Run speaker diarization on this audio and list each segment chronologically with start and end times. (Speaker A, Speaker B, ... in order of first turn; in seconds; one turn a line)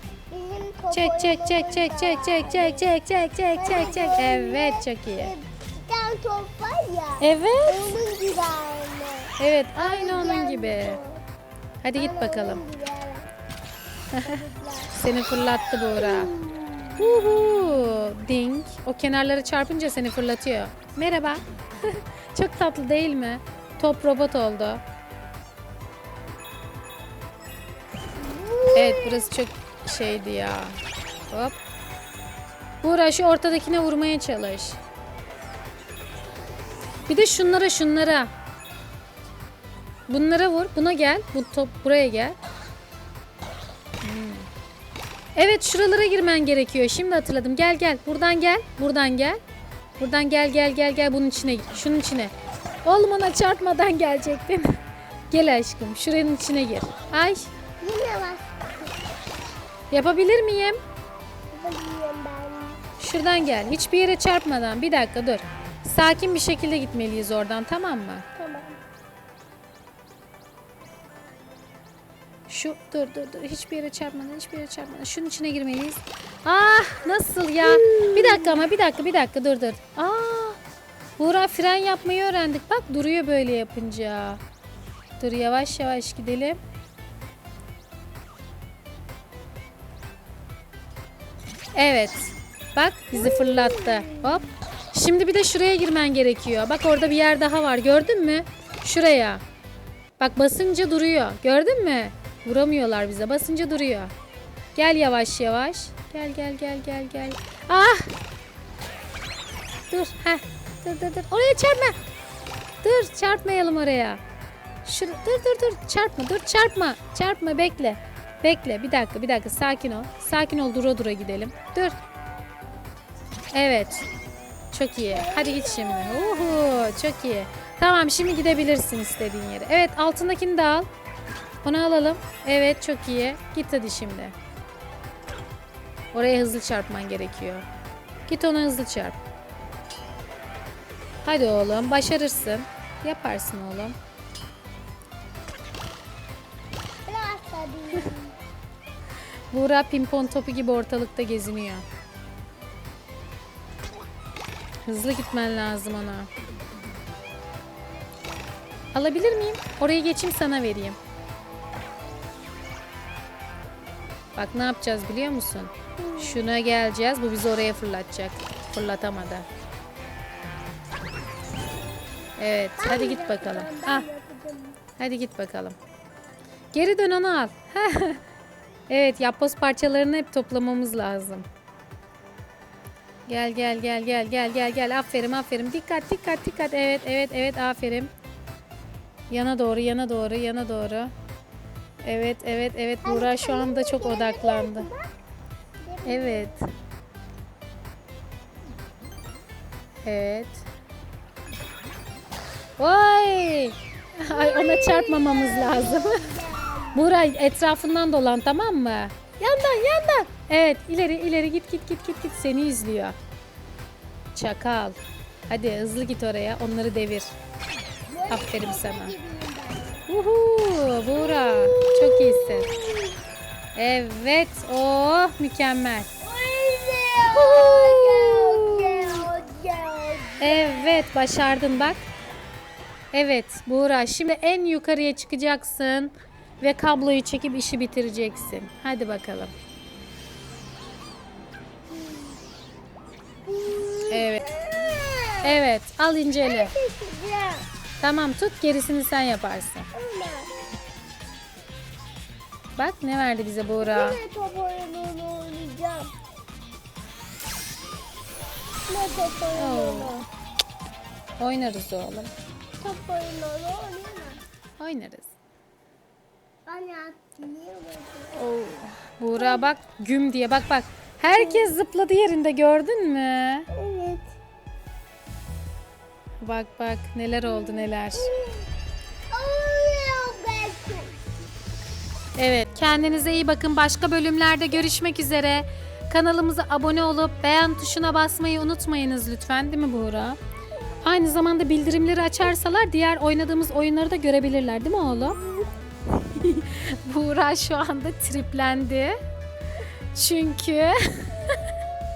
Speaker A: 0.3-2.9
Speaker B: 0.9-5.3
Speaker A: 3.5-11.2
Speaker B: 7.2-7.8
Speaker B: 9.4-11.0
Speaker B: 11.8-12.6
Speaker A: 11.9-13.3
Speaker B: 14.1-14.4
Speaker A: 14.2-14.9
Speaker B: 14.9-16.3
Speaker A: 15.8-17.5
Speaker B: 17.0-24.8
Speaker A: 28.1-29.3
Speaker B: 28.7-30.8
Speaker B: 31.3-31.6
Speaker B: 32.8-34.8
Speaker B: 37.1-38.3
Speaker B: 40.1-42.4
Speaker B: 44.0-44.5
Speaker B: 45.3-49.4
Speaker B: 50.0-52.3
Speaker B: 52.8-54.7
Speaker B: 55.3-57.5
Speaker A: 57.8-58.9
Speaker B: 59.9-60.8
Speaker A: 61.5-62.8
Speaker B: 63.0-68.2
Speaker A: 68.3-68.8
Speaker B: 72.5-80.6
Speaker A: 77.6-78.7
Speaker B: 81.2-84.4
Speaker B: 85.2-86.6
Speaker B: 91.7-99.4
Speaker A: 93.1-94.5
Speaker B: 100.2-104.1
Speaker B: 104.7-108.2
Speaker B: 109.9-112.0
Speaker B: 112.8-114.2
Speaker B: 114.8-122.0
Speaker B: 123.5-124.0
Speaker B: 124.7-130.9
Speaker A: 125.1-126.8
Speaker B: 131.6-134.3
Speaker B: 136.1-137.6
Speaker B: 138.3-139.2
Speaker B: 141.2-143.9
Speaker A: 147.1-148.3
Speaker B: 149.5-151.8
Speaker B: 154.8-156.3
Speaker B: 158.9-161.0
Speaker B: 164.4-169.4
Speaker A: 166.0-166.5
Speaker B: 172.4-174.1
Speaker A: 172.8-174.8
Speaker B: 175.0-175.8
Speaker B: 176.7-178.2
Speaker B: 178.9-181.5
Speaker B: 183.3-188.1
Speaker B: 189.3-191.1
Speaker B: 192.0-194.9
Speaker A: 193.0-195.1
Speaker A: 195.8-196.6
Speaker B: 196.1-196.6
Speaker B: 200.0-200.7
Speaker B: 202.8-206.3
Speaker A: 204.3-207.2
Speaker B: 206.9-213.2
Speaker B: 214.3-215.0
Speaker B: 215.5-217.3
Speaker A: 218.1-220.1
Speaker B: 218.3-219.1
Speaker B: 220.1-222.7
Speaker A: 221.1-223.2
Speaker B: 223.7-226.1
Speaker A: 226.2-231.1
Speaker B: 227.3-229.3
Speaker B: 230.4-232.0
Speaker B: 233.1-239.5
Speaker A: 241.9-242.4
Speaker A: 243.4-245.6
Speaker B: 244.1-244.5
Speaker B: 245.4-246.7
Speaker A: 246.4-247.7
Speaker B: 248.0-249.9
Speaker A: 249.9-250.5
Speaker B: 252.8-254.2
Speaker A: 253.8-256.1
Speaker A: 258.9-260.2
Speaker B: 259.5-260.2
Speaker B: 261.4-262.3
Speaker A: 262.8-264.4
Speaker B: 264.8-265.3
Speaker A: 266.6-268.4
Speaker B: 268.4-273.7
Speaker A: 269.4-269.7
Speaker A: 271.3-271.7
Speaker A: 273.7-274.3
Speaker B: 276.4-278.3
Speaker A: 277.4-278.7
Speaker A: 279.3-281.2
Speaker B: 282.4-290.4
Speaker B: 291.0-295.4
Speaker B: 296.2-299.2
Speaker B: 300.1-301.6